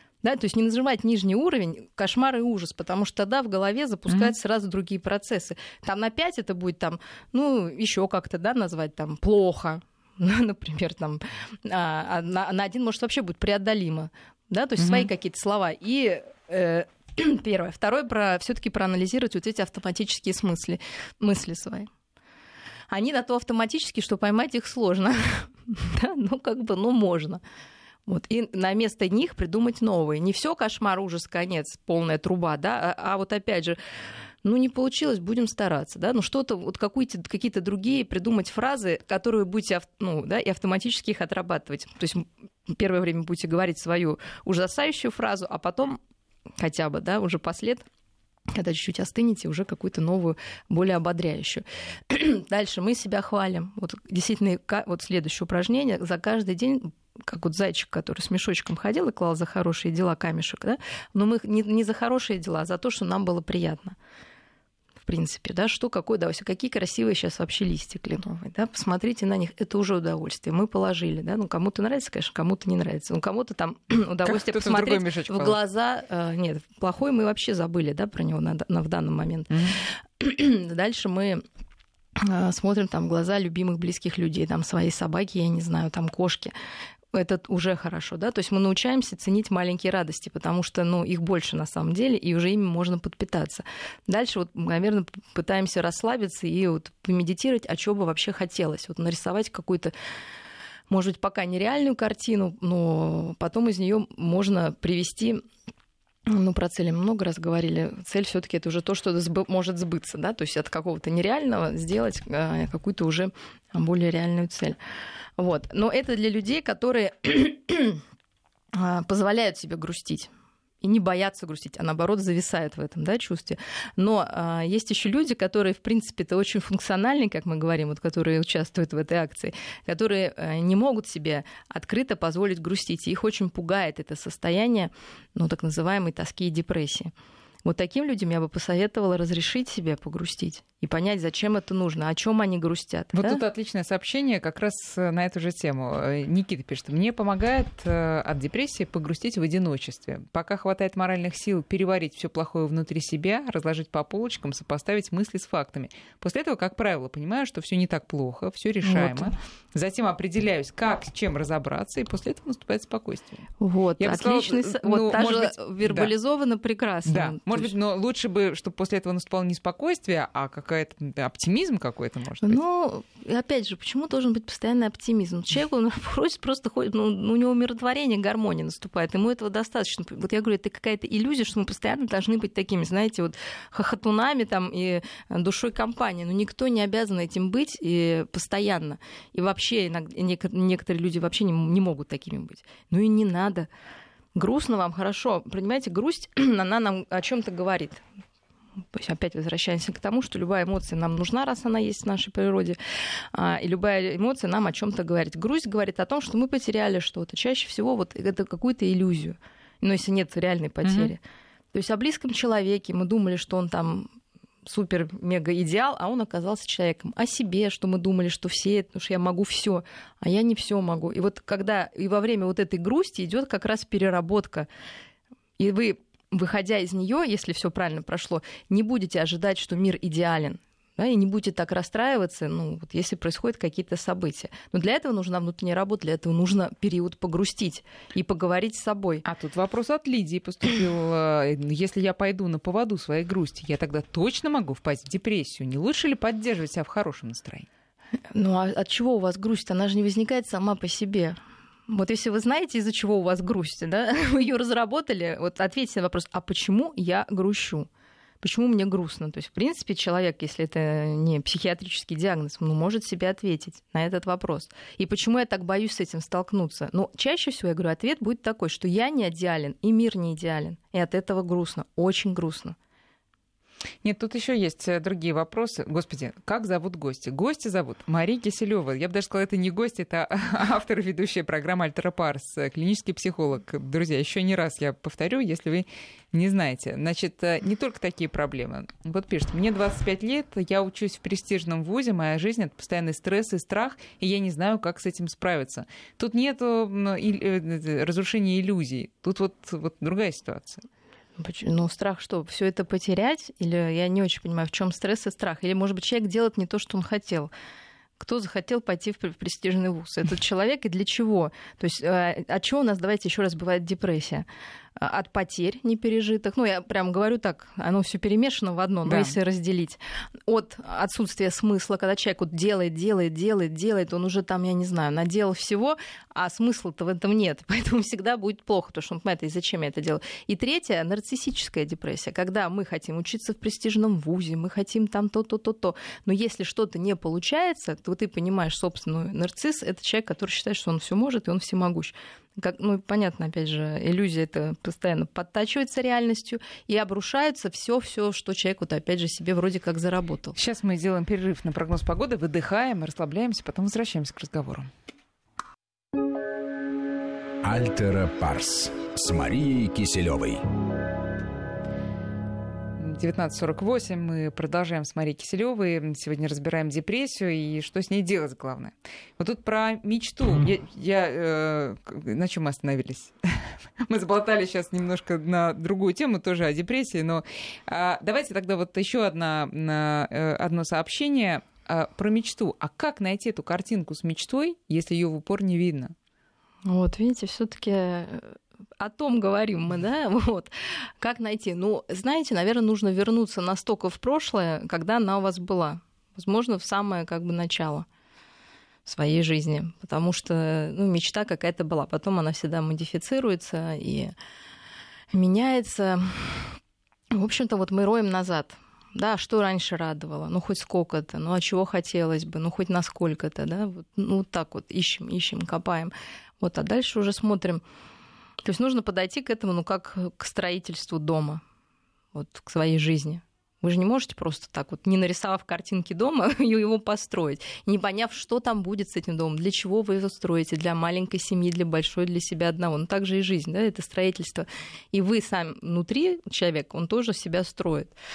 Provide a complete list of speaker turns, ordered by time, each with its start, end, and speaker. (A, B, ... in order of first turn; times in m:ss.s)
0:00.2-0:21.9 A
0:14.8-0:15.1 B
0:22.9-0:27.4 A
0:28.1-0:33.8 A
0:34.4-0:46.0 A
0:46.6-0:47.9 A
0:48.5-1:04.0 A
1:05.0-1:21.4 A
1:14.2-1:15.6 B
1:19.5-1:19.8 B
1:22.2-1:26.5 A
1:27.1-1:39.9 A
1:40.9-1:45.4 A
1:46.3-1:54.8 A
1:55.4-1:58.0 A
1:58.7-2:00.3 A
2:00.8-2:17.1 A
2:17.6-2:23.4 A
2:23.2-2:43.4 B
2:38.8-2:39.3 A
2:43.6-2:47.7 A
2:44.0-2:46.1 B
2:47.1-2:52.6 B
2:52.4-3:13.7 A
3:14.4-3:18.0 A
3:18.9-3:31.2 A
3:30.8-3:31.1 B
3:31.7-3:34.1 A
3:34.6-3:44.7 A
3:45.6-3:59.2 A
3:59.2-4:07.7 B
4:08.3-4:17.9 A
4:18.4-4:32.8 A
4:34.0-5:00.8 B
5:01.4-5:07.5 A
5:08.2-5:14.5 A
5:15.0-5:50.6 A
5:19.1-5:19.4 B
5:50.6-5:54.9 B
5:57.6-6:00.6 C
6:03.0-6:26.1 B
6:26.9-6:38.1 A
6:39.1-6:44.3 A
6:45.3-6:46.8 A
6:47.3-6:57.8 A
6:58.6-7:01.6 A
7:02.3-7:18.2 A